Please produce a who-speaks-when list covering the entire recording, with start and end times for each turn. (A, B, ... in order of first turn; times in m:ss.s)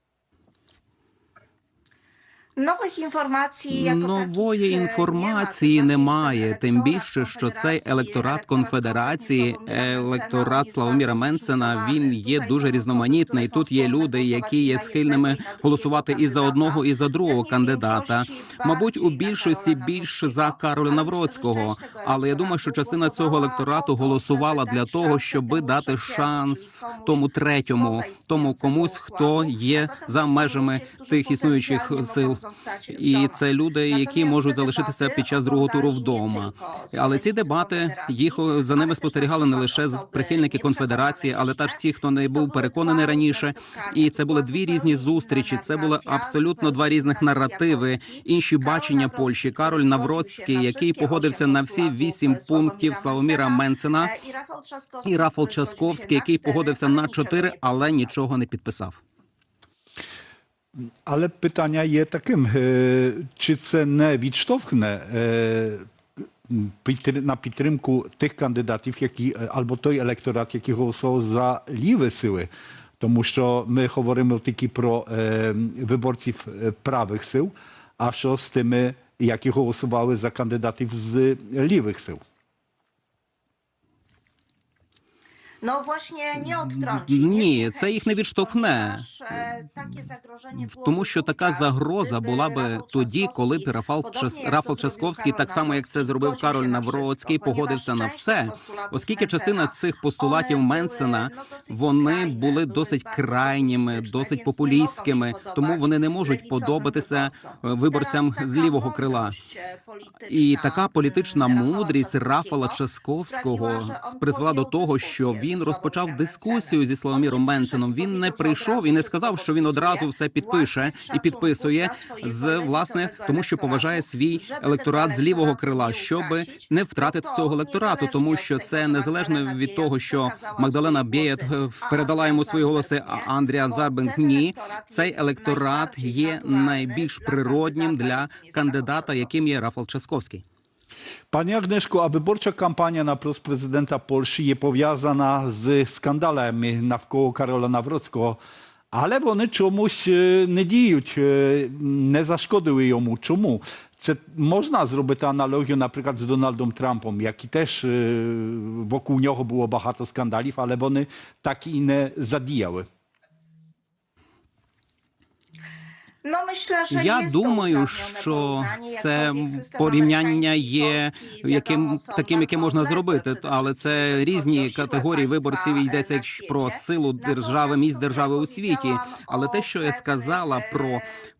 0:02.6-0:27.1 A
0:03.7-0:32.4 B
0:27.8-0:33.4 A
0:32.9-0:54.1 B
0:33.9-0:41.8 A
0:42.3-0:57.6 A
0:55.0-0:59.0 B
1:01.0-1:05.8 C
1:06.5-1:12.5 C
1:13.0-1:22.2 C
1:25.6-1:52.8 A
1:26.4-1:29.0 B
1:30.6-1:49.4 B
1:50.3-2:20.4 B
1:53.3-2:19.3 A
2:21.3-2:28.4 C
2:28.9-2:42.8 C
2:46.2-3:01.0 A
2:46.9-3:01.0 B